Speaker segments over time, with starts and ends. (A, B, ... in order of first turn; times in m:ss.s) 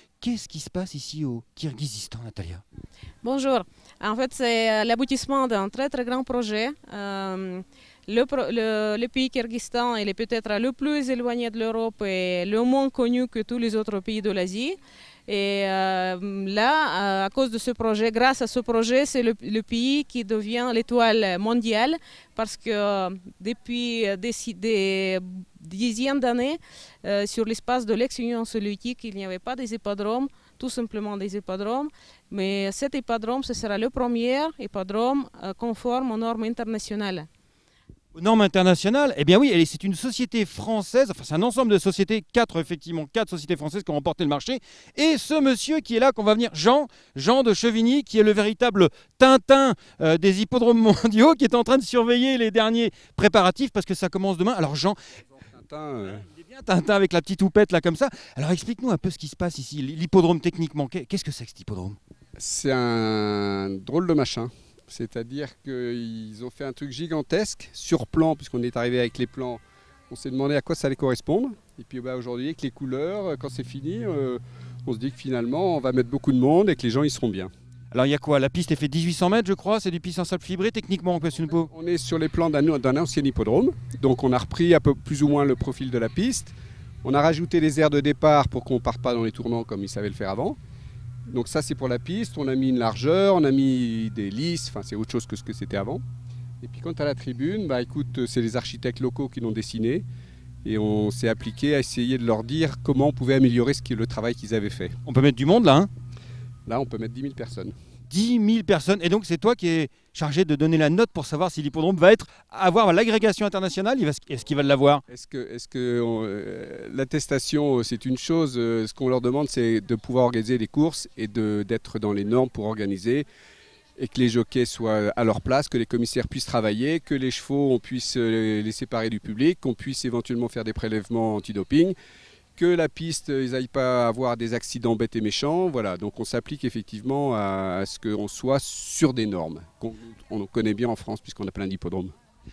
0:00.2-0:02.6 A
0:03.2-0:37.3 B
0:38.1-0:55.0 A
0:55.4-0:56.2 C
0:56.1-1:02.0 A
1:02.4-1:17.5 C
1:17.9-1:21.7 A
1:21.5-1:30.6 C
1:31.3-1:36.0 C
1:36.6-1:40.0 C
1:40.6-1:45.0 C
1:45.0-1:45.9 A
1:46.6-1:47.7 C
1:48.1-1:55.0 A
1:55.1-2:03.2 C
2:04.0-2:12.0 C
2:12.6-2:22.1 C